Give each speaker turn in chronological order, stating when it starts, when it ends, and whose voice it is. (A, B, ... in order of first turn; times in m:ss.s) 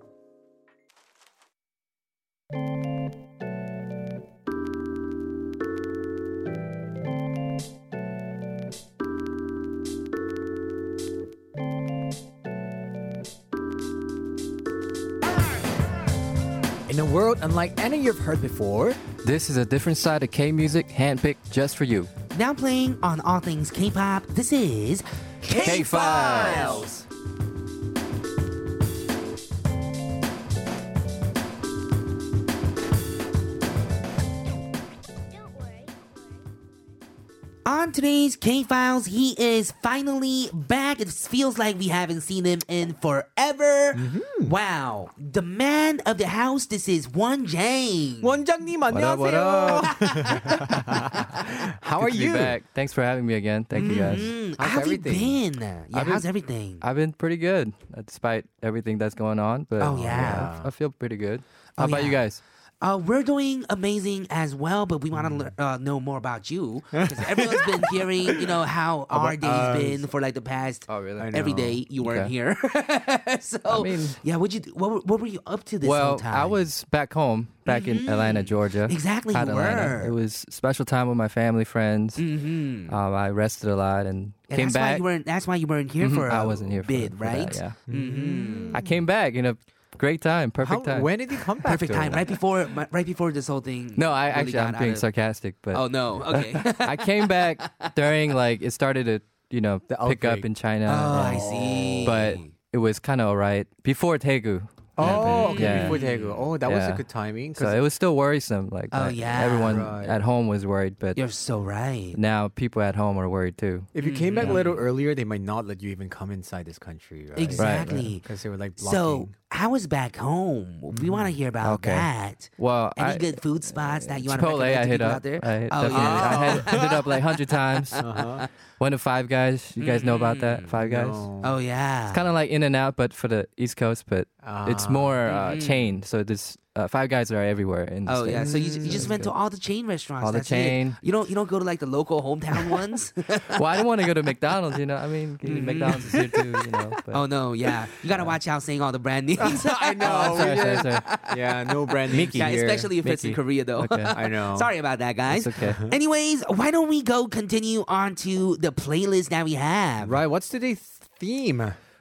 0:16.9-0:19.0 A
0:19.2-0:22.1 B
0:22.3-0:26.9 C
0:25.5-0:26.9 A
0:25.5-0:27.0 B
0:37.7-0:48.4 C
0:43.9-0:44.5 A
0:48.2-0:52.6 A
0:48.9-0:49.9 B
0:49.8-0:51.2 C
0:52.0-0:54.3 B
0:53.8-0:56.8 C
0:53.8-0:55.4 A
0:55.9-0:56.3 B
0:56.8-1:02.4 B
0:59.8-1:00.5 C
0:59.9-1:00.7 A
1:01.8-1:02.2 C
1:02.8-1:16.6 C
1:05.1-1:05.5 A
1:07.1-1:08.6 A
1:09.1-1:10.1 A
1:10.9-1:11.3 B
1:11.2-1:11.8 A
1:12.0-1:12.3 B
1:13.8-1:14.2 A
1:15.8-1:22.2 B
1:17.7-1:20.1 C
1:22.2-1:22.9 C
1:22.9-1:25.1 B
1:24.5-1:28.8 C
1:26.0-1:27.8 B
1:27.9-1:29.0 A
1:28.7-1:31.1 B
1:30.6-1:32.3 A
1:31.6-1:35.0 C
1:34.0-1:41.5 B
1:35.7-1:37.9 C
1:39.9-1:40.5 A
1:40.9-1:42.5 C
1:41.1-1:42.2 A
1:42.0-1:46.0 B
1:45.0-1:47.8 A
1:45.0-1:46.5 C
1:46.6-1:47.0 B
1:47.6-1:51.2 B
1:48.9-1:49.8 C
1:49.6-1:50.2 A
1:51.2-1:52.2 C
1:52.2-1:54.6 B
1:53.9-1:59.3 A
1:54.0-1:54.8 C
1:57.4-1:58.3 C
1:57.6-1:58.1 B
1:58.8-2:07.1 C
2:00.9-2:01.4 A
2:01.6-2:08.1 B
2:05.9-2:07.0 A
2:08.0-2:08.5 C
2:08.0-2:08.5 A
2:08.8-2:11.3 B
2:09.8-2:10.7 C
2:10.8-2:11.6 A
2:11.4-2:12.2 C
2:12.1-2:19.3 B
2:14.4-2:15.2 A
2:15.3-2:15.8 C
2:18.1-2:23.6 C
2:18.4-2:19.2 A
2:20.2-2:21.0 B
2:23.5-2:27.3 B
2:25.4-2:26.4 C
2:27.1-2:40.2 C
2:29.4-2:32.9 A
2:30.0-2:31.0 B
2:32.1-2:34.2 B
2:34.1-2:34.7 A
2:35.3-2:35.8 B
2:40.0-2:41.8 A